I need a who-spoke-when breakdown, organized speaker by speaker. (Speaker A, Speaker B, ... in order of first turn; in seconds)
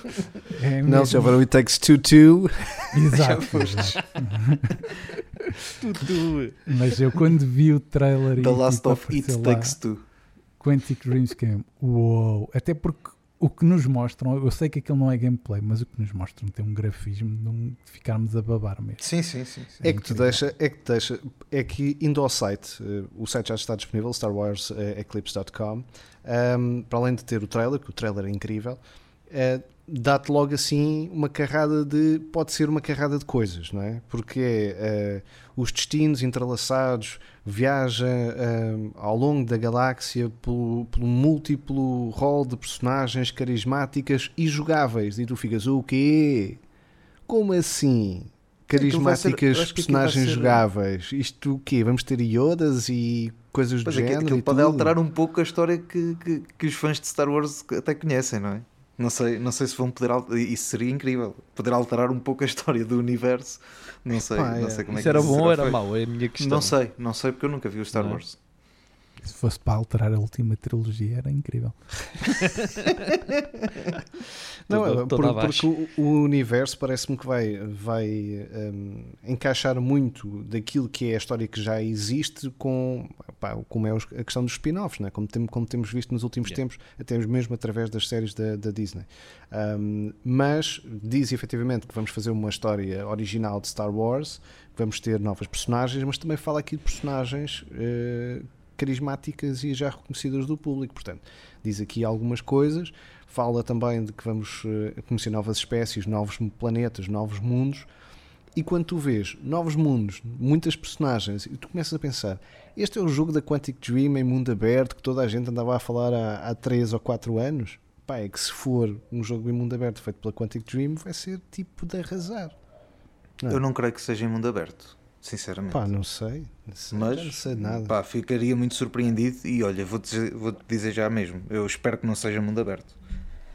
Speaker A: 0.6-1.4, 2.9-4.7, 6.7-9.8, 10.6-19.0, 19.8-20.4, 69.2-71.8
Speaker B: 0.8-2.9, 19.8-46.6, 47.3-55.0, 64.2-65.4, 74.7-107.9, 108.5-122.6, 125.7-128.0
Speaker C: 3.1-4.2, 8.4-10.0, 19.0-19.8, 48.8-50.6, 53.9-65.8, 66.4-68.4, 123.5-125.9, 126.9-132.9
Speaker D: 5.8-6.6, 64.9-66.8, 67.9-68.2, 72.4-72.9, 74.7-75.7